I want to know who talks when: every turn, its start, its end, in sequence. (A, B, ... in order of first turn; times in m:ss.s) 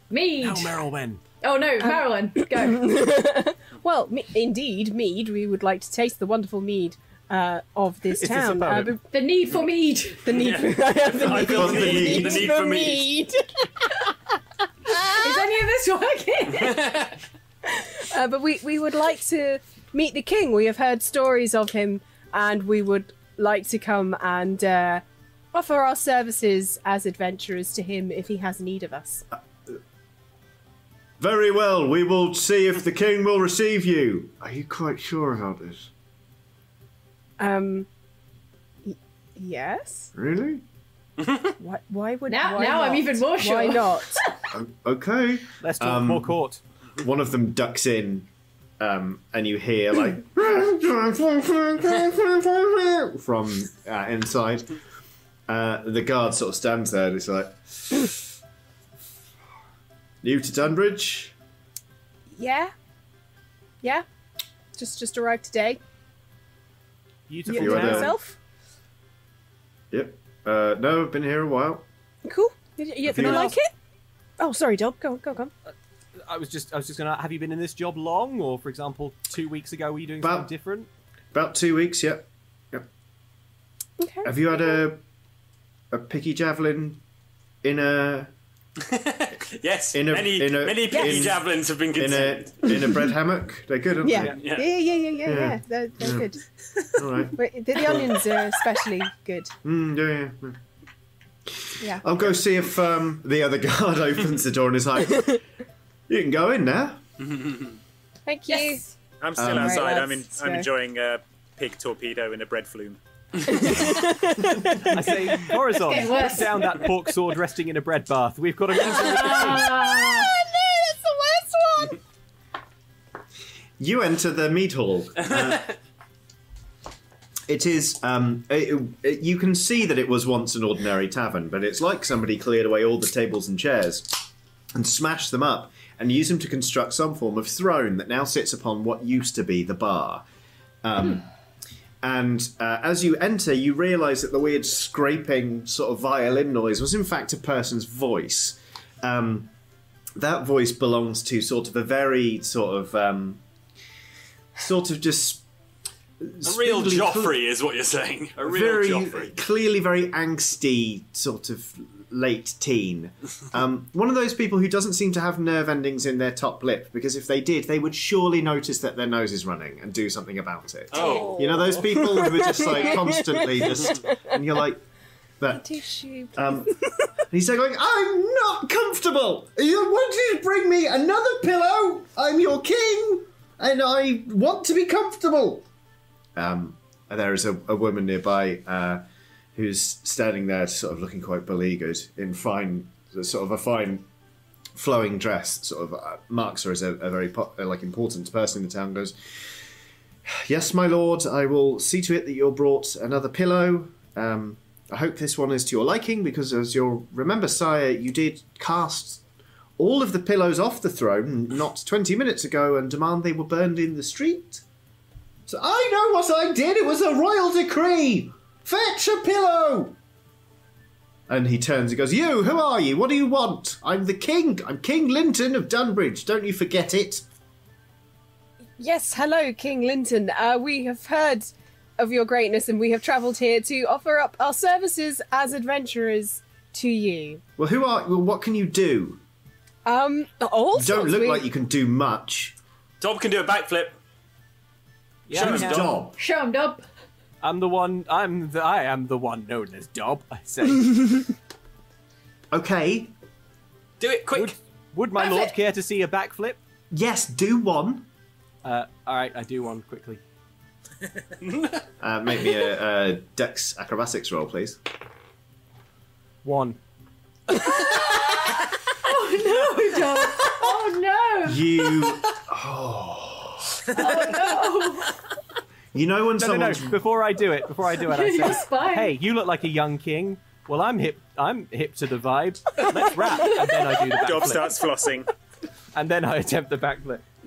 0:00.1-0:00.8 A
0:00.4-0:01.2 B
0:01.4-0:02.9 A
0:01.8-0:09.0 C
0:08.2-0:09.0 B
0:09.1-0:10.3 A
0:10.2-0:14.1 C
0:10.3-0:13.2 D
0:11.4-0:12.5 E
0:14.9-0:15.5 C
0:15.2-0:17.1 A
0:16.8-0:17.1 D
0:17.7-0:29.2 C
0:31.2-0:35.9 E
0:37.4-0:37.9 C
0:38.8-0:40.1 C
0:40.2-0:40.6 E
0:41.2-0:41.5 D
0:41.6-0:44.2 C
0:42.3-0:44.2 A
0:44.5-0:46.4 E
0:45.6-0:46.6 B
0:47.0-0:48.3 E
0:48.8-0:54.7 E
0:55.5-0:58.3 E
1:00.2-1:01.4 E
1:02.4-1:02.7 C
1:04.8-1:05.8 C
1:07.3-1:08.2 B
1:07.5-1:08.4 C
1:07.5-1:08.1 E
1:09.9-1:11.9 E
1:12.2-1:13.7 C
1:13.0-1:13.6 E
1:13.2-1:13.5 B
1:14.4-1:15.5 C
1:16.2-1:20.9 B
1:20.2-1:20.5 E
1:21.3-1:22.9 E
1:24.0-1:24.8 C
1:24.2-1:25.0 E
1:25.9-1:27.0 E
1:27.6-1:28.3 E
1:28.8-1:32.8 D
1:29.9-1:34.4 E
1:34.0-1:36.4 C
1:34.2-1:34.7 D
1:35.2-1:36.3 E
1:37.0-1:38.1 E
1:37.3-1:39.5 C
1:39.6-1:40.6 E
1:41.9-1:45.4 E
1:46.1-1:47.0 E
1:48.3-1:48.8 C
1:48.5-1:48.9 A
1:49.2-1:53.0 F
1:49.4-1:49.9 E
1:49.4-1:50.7 C
1:53.5-1:55.8 C
1:54.9-1:59.8 B
1:55.7-1:56.8 A
1:56.6-1:57.2 C
1:58.8-2:02.0 C
1:58.9-2:00.3 A
2:03.8-2:05.8 E
2:07.5-2:14.2 E
2:14.8-2:20.2 E
2:20.8-2:21.3 E
2:22.0-2:29.5 E
2:30.2-2:33.4 E
2:34.6-2:35.4 E
2:36.2-2:37.4 E
2:36.4-2:39.3 D
2:38.4-2:54.8 E
2:50.9-2:51.8 D
2:50.9-2:54.4 C
2:55.5-2:56.8 C
2:56.4-2:56.8 E
2:57.3-3:05.7 E
3:06.4-3:09.0 E
3:09.6-3:14.1 E
3:14.8-3:19.2 E
3:20.3-3:29.2 E
3:29.8-3:34.6 E
3:35.5-3:40.0 E
3:41.3-3:47.2 E
3:48.8-3:57.4 C
3:57.6-3:59.2 E
3:59.8-4:01.5 C
4:00.7-4:02.6 E
4:03.0-4:04.0 D
4:05.3-4:06.0 B
4:05.3-4:06.0 D
4:05.4-4:06.2 E
4:06.1-4:06.8 A
4:07.4-4:11.3 B
4:12.5-4:13.1 E
4:14.0-4:14.6 D
4:14.3-4:16.6 B
4:15.2-4:15.6 A
4:16.9-4:18.1 E
4:18.6-4:20.2 B
4:21.4-4:21.8 D
4:22.0-4:24.8 E
4:26.4-4:26.8 B
4:27.5-4:28.1 B
4:27.5-4:32.1 A
4:31.4-4:34.1 E
4:33.9-4:35.2 A
4:35.9-4:37.0 E
4:36.4-4:44.8 B
4:38.0-4:39.2 A
4:44.2-4:45.3 F
4:46.0-4:47.2 B